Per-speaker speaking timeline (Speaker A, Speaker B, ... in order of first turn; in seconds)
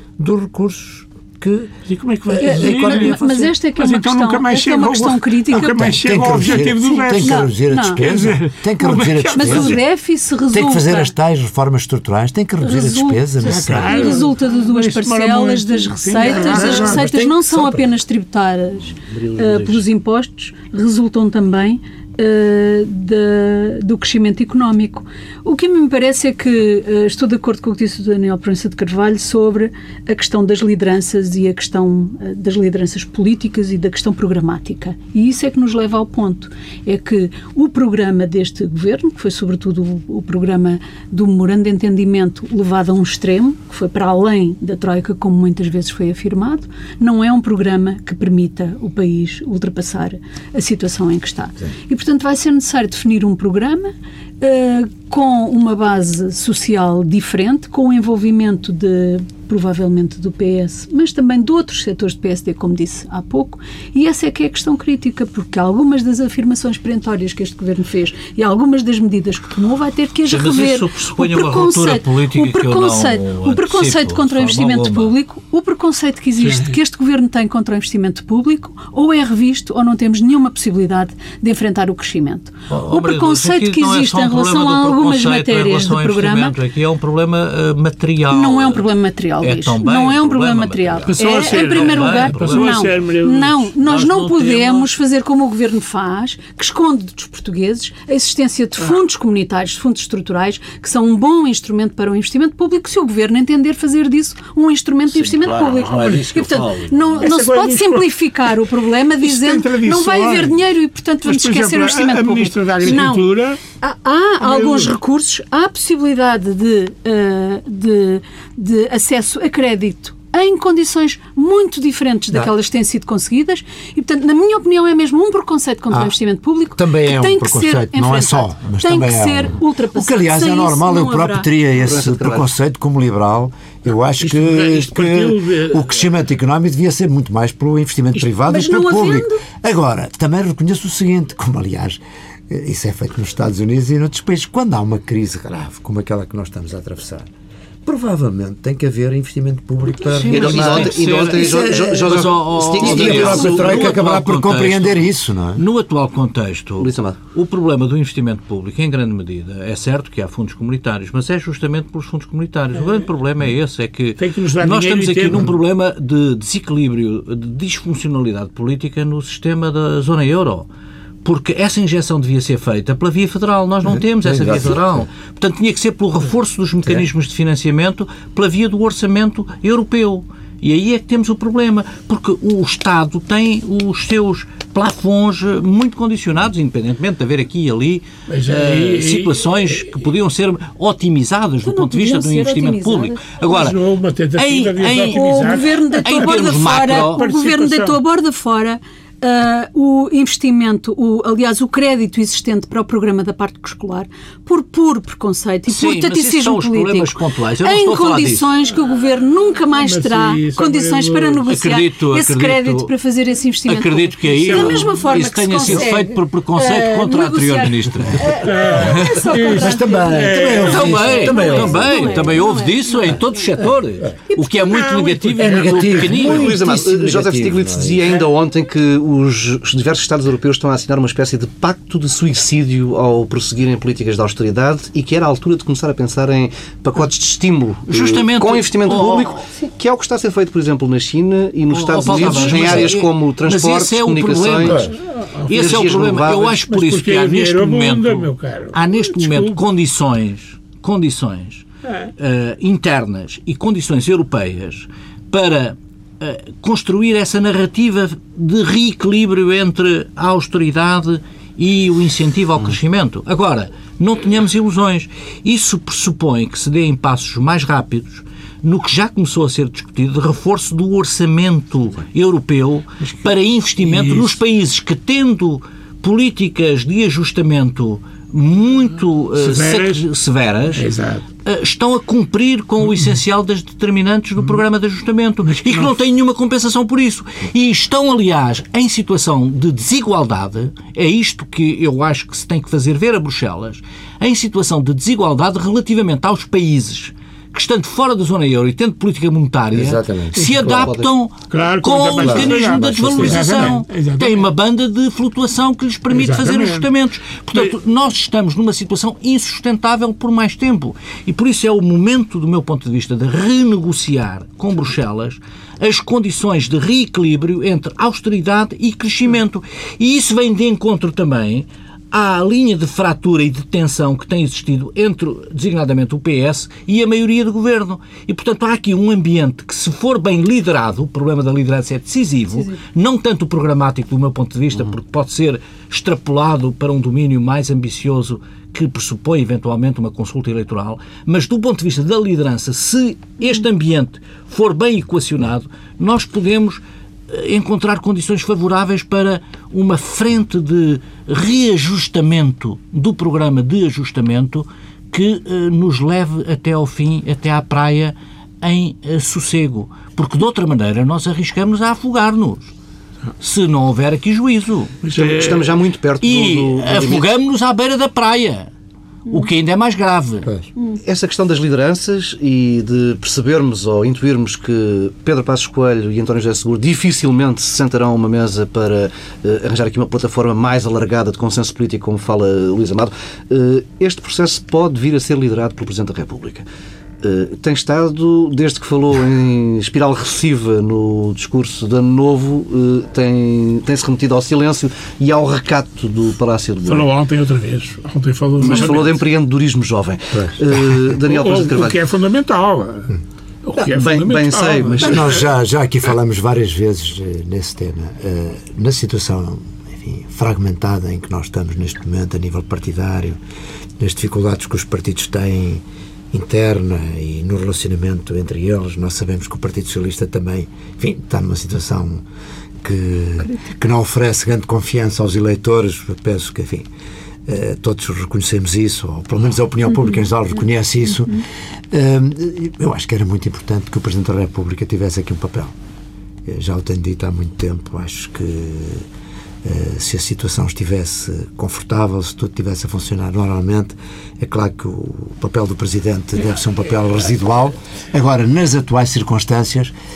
Speaker A: 0.2-1.7, 2.3-3.2, 5.5-9.8, 10.5-14.2, 16.4-17.8, 125.9-126.1, 126.8-147.3, 147.8-155.6, 174.2-174.8, 218.9-222.2, 225.4-228.1, 299.7-300.9, 302.2-303.7, 400.3-400.8, 405.0-413.4, 414.0-422.2, 422.8-426.9, 427.4-435.7, 436.4-439.1, 439.6-449.9
Speaker B: 1.9-9.8, 13.4-17.2, 91.0-93.7, 107.2-108.2, 109.2-110.6, 111.2-113.6, 114.4-115.0, 134.2-136.0, 164.2-165.5, 188.3-189.6, 193.4-198.0, 209.7-211.5, 214.3-214.9, 218.4-221.6, 224.5-226.3, 245.0-249.6, 273.8-274.4, 279.4-280.0, 280.7-281.2, 285.4-285.9, 301.5-304.4, 306.1-306.9, 365.0-365.8, 396.8-399.2, 401.2-405.4
Speaker C: 2.4-8.0, 8.9-11.1, 12.6-86.5, 88.3-131.5, 138.4-139.4, 191.6-193.3, 195.0-223.4
Speaker D: 70.3-75.1, 82.7-93.0, 93.7-94.9, 105.1-107.2, 150.0-170.7, 171.2-195.2, 196.0-197.2, 205.7-208.5, 211.5-212.9, 213.7-219.2, 220.5-226.6, 237.9-239.4, 241.7-244.9, 245.5-251.7, 252.2-280.9, 281.4-362.7, 363.4-365.0, 366.2-368.7, 369.3-370.5
Speaker E: 131.8-132.5, 150.2-154.0, 156.8-157.2, 226.1-244.9, 245.5-246.5, 300.5-301.1, 365.1-367.3, 371.0-386.6, 387.2-397.1, 398.6-402.0, 403.8-405.4